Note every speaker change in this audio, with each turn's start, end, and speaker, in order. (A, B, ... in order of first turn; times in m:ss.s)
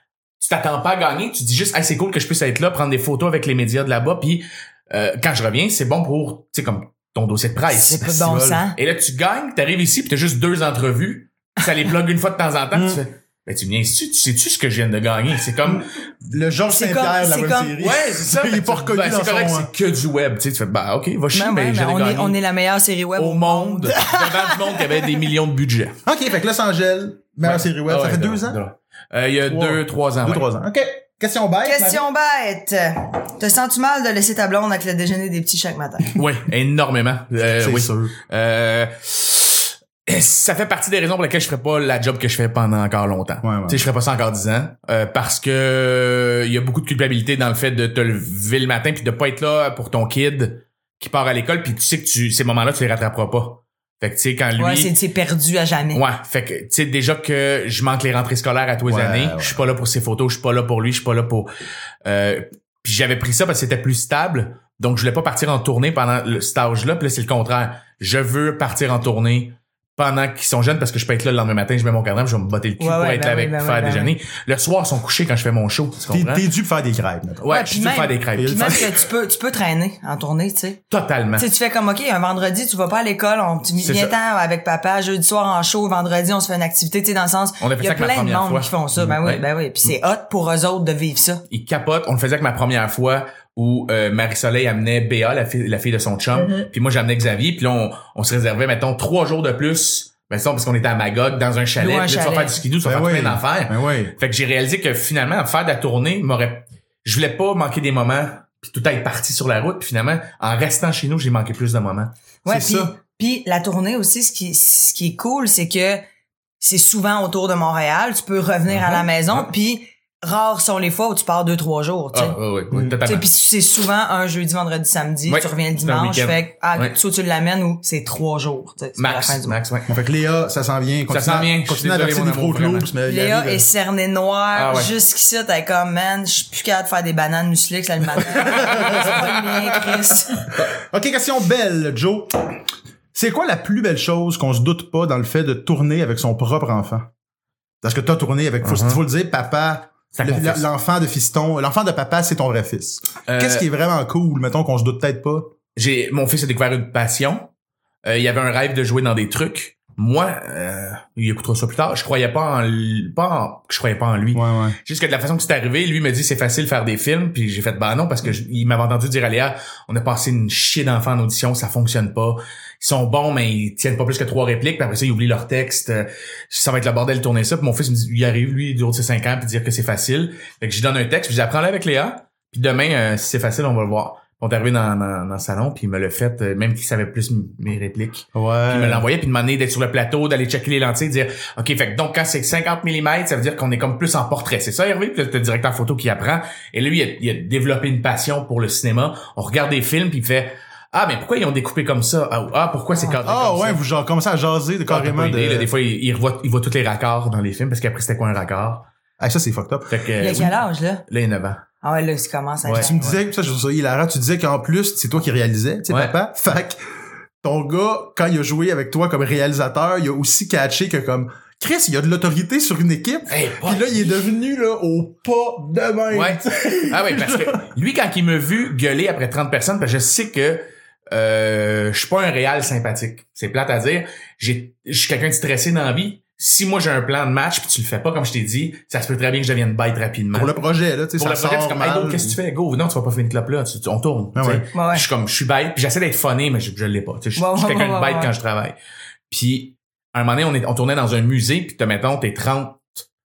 0:00.4-0:15.8 A
0:07.7-0:08.8 B
0:12.7-0:13.0 C
0:15.6-0:19.7 C
0:16.7-0:17.7 B
0:17.8-0:22.4 A
0:21.3-0:25.0 B
0:23.2-0:26.0 A
0:26.0-0:28.6 C
0:27.4-0:30.5 A
0:29.5-0:32.0 C
0:31.6-0:36.2 B
0:36.1-0:54.9 A
0:37.6-0:38.1 C
0:43.4-0:43.8 C
0:54.6-0:56.0 B
0:55.9-1:01.5 A
0:58.8-0:59.6 C
1:02.0-1:16.4 A
1:12.8-1:14.1 B
1:16.1-1:17.5 C
1:17.4-1:18.8 A
1:17.5-1:20.8 B
1:18.3-1:18.9 C
1:20.9-1:21.4 A
1:21.4-1:31.4 B
1:23.8-1:24.1 A
1:27.6-1:29.4 A
1:31.5-1:52.1 A
1:41.8-1:42.5 B
1:42.8-1:44.1 C
1:52.4-1:56.0 B
1:52.5-1:52.9 C
1:56.6-2:02.4 B
1:58.7-1:59.1 A
2:02.1-2:03.3 A
2:02.7-2:03.0 C
2:03.0-2:09.6 B
2:05.3-2:06.9 A
2:09.0-2:09.9 A
2:09.9-2:13.6 C
2:11.1-2:12.9 A
2:13.0-2:20.4 B
2:14.5-2:14.9 A
2:18.5-2:19.1 C
2:18.6-2:20.0 A
2:20.6-2:22.3 C
2:23.1-2:27.1 C
2:27.8-2:35.5 C
2:28.6-2:29.0 A
2:30.1-2:30.6 A
2:33.3-2:33.6 A
2:35.8-2:37.5 A
2:38.0-3:23.8 A
2:44.3-2:44.8 C
3:08.3-3:09.0 C
3:23.2-3:25.7 C
3:24.9-3:28.9 A
3:29.2-3:29.9 C
3:29.9-3:31.6 A
3:30.2-3:31.0 B
3:31.8-3:32.9 B
3:32.6-3:33.2 A
3:32.7-3:36.8 C
3:37.4-3:47.6 C
3:43.3-3:44.3 A
3:46.1-4:00.5 A
4:00.3-4:02.4 C
4:01.2-4:08.8 A
4:04.3-4:04.6 C
4:04.7-4:05.0 B
4:07.4-4:08.3 B
4:09.3-4:13.0 A